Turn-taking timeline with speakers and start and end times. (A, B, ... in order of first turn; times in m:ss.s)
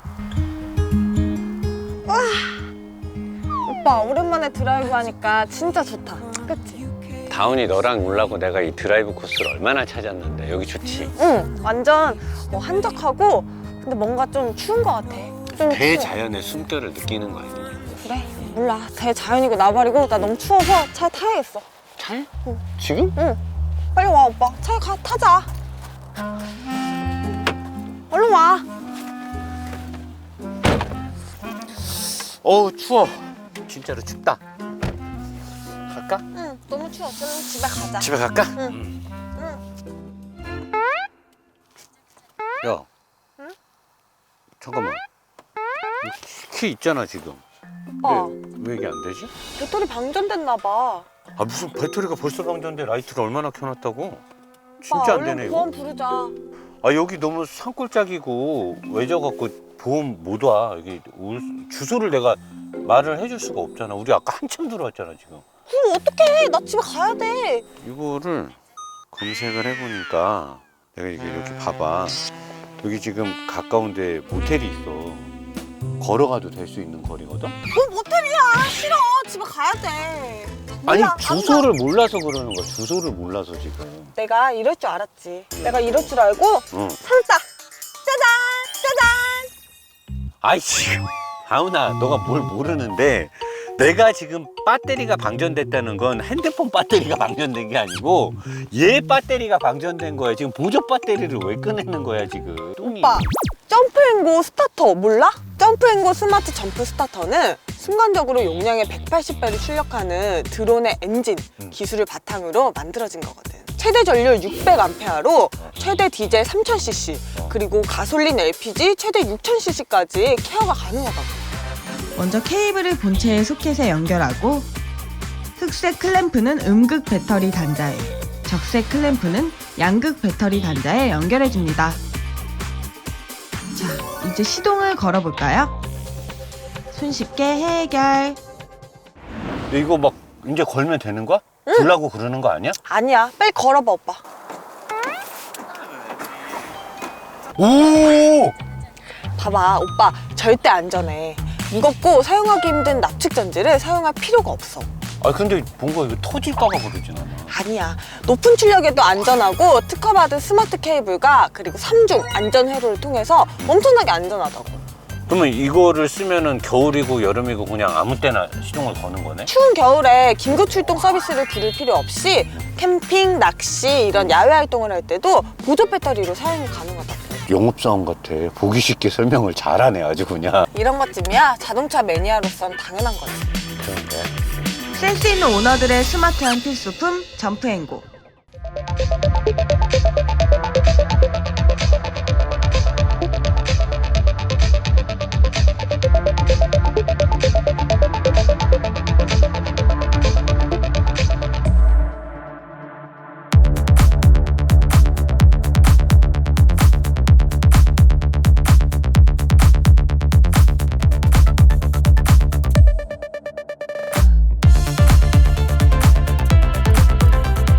0:02.0-0:02.7 A
0:03.6-0:06.9 A
0:07.3-0:11.1 B
0:11.2-0:16.1 A
0:15.6-0:18.0 B
0:18.0-0:21.7 A
0:22.0-0:23.2 B
0:23.1-0:23.4 A
0:23.9-0:25.5 A
0:28.1-0:28.7 A
0:31.8-0:34.4 B
0:35.9-0:36.2 B
0:36.3-0:38.8 A
0:38.0-0:39.0 B
0:39.4-0:39.6 A
0:42.6-0:42.9 B
0:44.6-0:45.0 B
0:46.0-0:47.4 B
0:48.0-0:48.3 A
0:48.0-0:49.3 B
0:49.6-0:51.1 A
0:51.4-0:54.2 B
0:54.8-0:55.7 B
0:54.9-0:56.4 A
0:56.8-1:05.4 B
1:05.7-1:07.7 A
1:07.8-1:08.6 B
1:09.1-1:12.2 B
1:12.8-1:15.3 B
1:16.0-1:17.6 B
1:17.7-1:21.7 A
1:20.8-1:24.1 B
1:24.2-1:27.5 A
1:25.6-1:26.1 B
1:26.7-1:27.0 B
1:28.0-1:29.5 A
1:30.4-1:43.3 B
1:42.8-2:01.5 A
2:02.1-2:04.7 C
2:05.6-2:12.0 C
2:13.7-2:15.8 C
2:16.9-2:18.4 C
2:19.7-2:22.8 B
2:21.6-2:21.9 A
2:22.8-2:24.2 A
2:27.6-2:28.6 B
2:29.3-2:34.9 A
2:35.2-2:37.5 B
2:37.5-2:44.8 A
2:45.3-2:49.5 B
2:49.5-2:57.5 A
2:57.5-3:00.7 B
3:00.7-3:03.6 A
3:03.8-3:04.7 B
3:04.9-3:08.1 C